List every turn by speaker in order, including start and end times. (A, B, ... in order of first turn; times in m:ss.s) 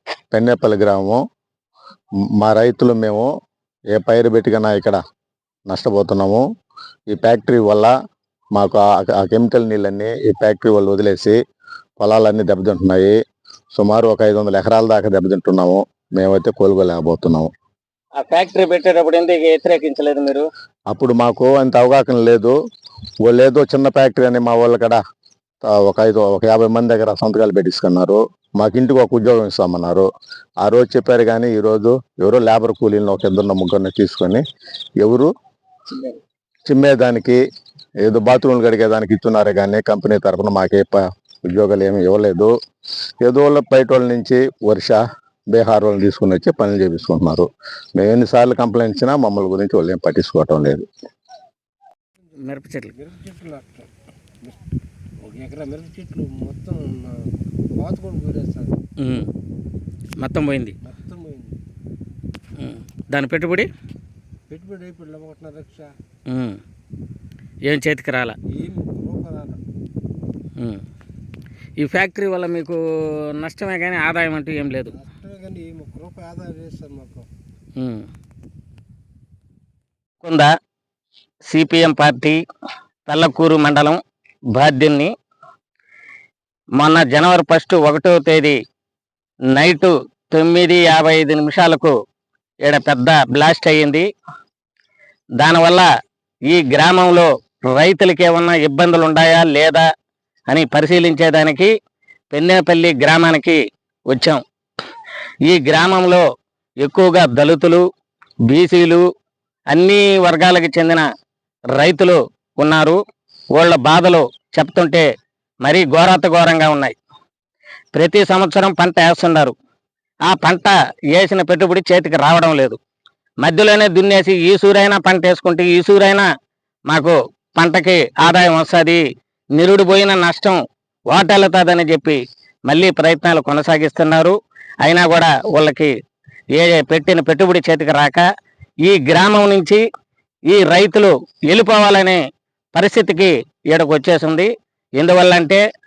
0:00.3-0:01.2 A
0:02.4-0:03.3 A
0:03.9-0:05.0 A
0:05.7-0:06.4 A
0:07.1-0:07.9 A
0:08.6-0:11.4 A
0:12.0-0:13.1 A
0:13.8-0:17.5 A
0:18.2-0:20.5 B
0:20.9-0:22.5 A
0:23.2-0:25.0 A
0:25.6-0:30.1 A
0:30.6-0:34.4 A
0:35.0-0:35.3 A
0:36.7-0:37.4 A
0:38.0-0:42.5 A
0:43.2-0:45.0 A
0:45.5-0:50.8 A
0:52.4-0:52.9 B
0:52.8-0:53.9 C
0:55.2-0:58.8 C
0:59.0-0:59.3 B
1:00.2-1:00.8 B
1:00.8-1:01.6 C
1:02.6-1:03.7 B
1:04.5-1:05.9 C
1:06.3-1:06.6 B
1:07.7-1:08.4 B
1:08.5-1:09.6 C
1:11.8-1:12.8 B
1:13.3-1:15.0 B
1:14.9-1:17.3 C
1:17.8-1:18.1 B
1:20.2-1:20.5 B
1:21.4-1:22.4 B
1:23.1-1:24.0 B
1:24.5-1:25.1 B
1:26.8-1:28.6 B
1:29.5-1:31.9 B
1:32.6-1:34.1 B
1:35.4-1:35.9 B
1:36.5-1:39.9 B
1:40.5-1:41.7 B
1:42.3-1:43.6 B
1:44.1-1:44.4 B
1:45.4-1:46.2 B
1:46.8-1:47.8 B
1:48.5-1:49.0 B
1:49.7-1:51.1 B
1:51.8-1:53.0 B
1:53.6-1:55.1 B
1:55.6-1:57.0 B
1:57.9-1:59.5 B
2:00.3-2:02.8 B
2:03.4-2:06.3 B
2:06.9-2:09.0 B
2:09.6-2:10.6 B
2:11.1-2:15.9 B
2:16.5-2:18.2 B
2:18.8-2:19.8 B
2:20.5-2:22.2 B
2:22.7-2:25.6 B